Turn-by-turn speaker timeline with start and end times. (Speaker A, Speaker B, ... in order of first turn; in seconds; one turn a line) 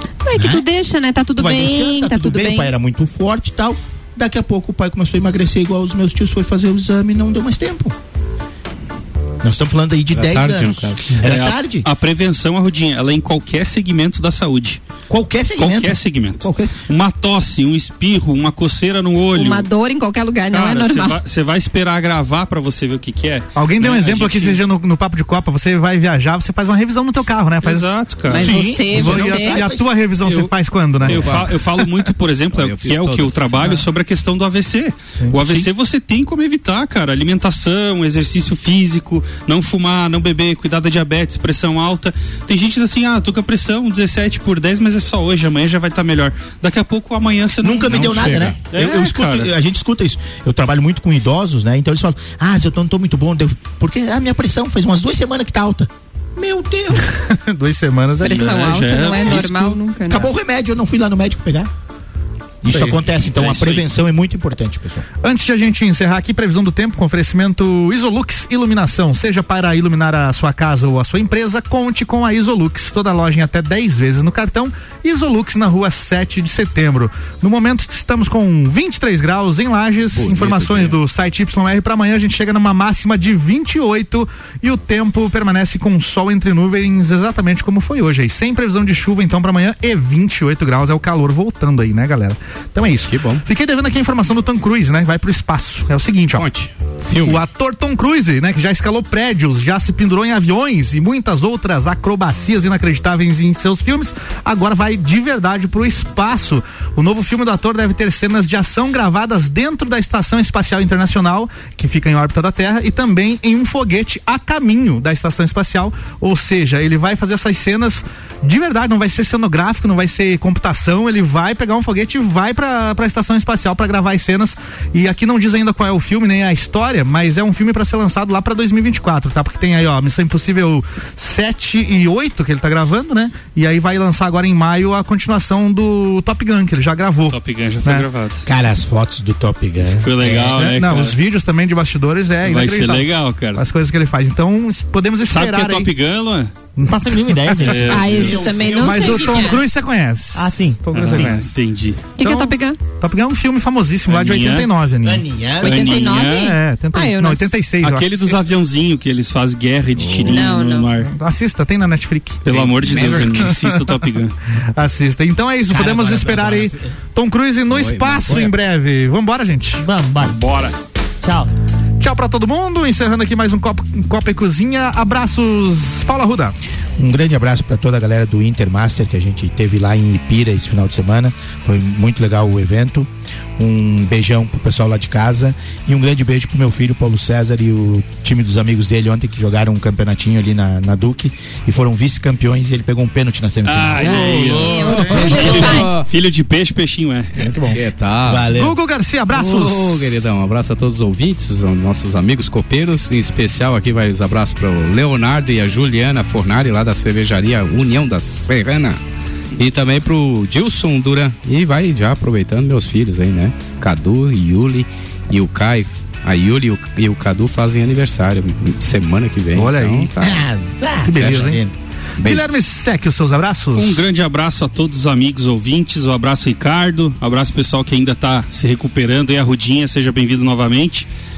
Speaker A: 0.2-2.7
Speaker B: 0.3-0.7
Speaker B: 1.4-8.0
Speaker B: 9.4-11.9
Speaker C: 10.1-11.2
Speaker D: 11.2-14.8
Speaker B: 15.1-16.8
Speaker D: 15.6-19.7
Speaker A: 19.4-21.2
Speaker D: 20.5-24.6
Speaker E: 23.6-27.9
Speaker D: 27.6-28.6
Speaker A: 28.3-29.9
Speaker B: 28.3-29.8
Speaker E: 28.8-31.5
Speaker C: 31.0-31.6
Speaker D: 31.0-49.5
Speaker C: 32.5-33.8
Speaker E: 35.2-35.7
Speaker B: 47.6-57.1
Speaker C: 47.8-48.6
Speaker E: 57.0-59.7
Speaker A: 58.2-60.3
Speaker D: 58.2-59.7
Speaker B: 60.1-61.7
Speaker B: 62.6-65.0
Speaker E: 62.7-63.0
Speaker D: 63.4-63.8
Speaker E: 65.2-96.5
Speaker C: 80.1-81.0
Speaker C: 93.0-93.5
Speaker C: 96.3-97.4
Speaker E: 97.2-138.1
Speaker D: 137.3-138.5
Speaker B: 138.4-140.6
Speaker D: 140.0-141.2
Speaker E: 140.5-145.9
Speaker D: 142.4-143.6
Speaker D: 145.2-146.5
Speaker E: 146.8-151.5
Speaker F: 146.9-148.3
Speaker D: 147.6-148.5
Speaker A: 147.9-149.6
Speaker B: 148.0-149.3
Speaker F: 150.3-151.4
Speaker D: 150.9-152.1
Speaker A: 152.2-152.8
Speaker E: 152.2-155.3
Speaker D: 154.1-154.7
Speaker B: 155.0-156.0
Speaker D: 155.6-156.6
Speaker A: 155.6-157.6
Speaker E: 155.9-158.3
Speaker D: 157.8-161.1
Speaker C: 160.0-160.5
Speaker A: 160.3-160.9
Speaker E: 161.0-163.9
Speaker D: 162.4-164.4
Speaker C: 162.5-163.6
Speaker E: 164.8-169.8
Speaker B: 165.7-166.8
Speaker C: 167.7-168.6
Speaker F: 169.8-170.4
Speaker D: 170.2-170.8
Speaker F: 171.2-171.5
Speaker E: 172.0-176.5
Speaker B: 177.0-194.6
Speaker D: 193.7-197.4
Speaker C: 194.0-196.1
Speaker A: 194.6-195.9
Speaker B: 195.1-195.9
Speaker B: 197.4-198.8
Speaker C: 197.7-198.6
Speaker E: 198.5-200.1
Speaker C: 199.3-209.0
Speaker C: 209.6-220.1
Speaker E: 219.5-220.1
Speaker B: 220.2-222.4
Speaker E: 221.0-221.6
Speaker E: 222.2-224.1
Speaker D: 223.8-231.1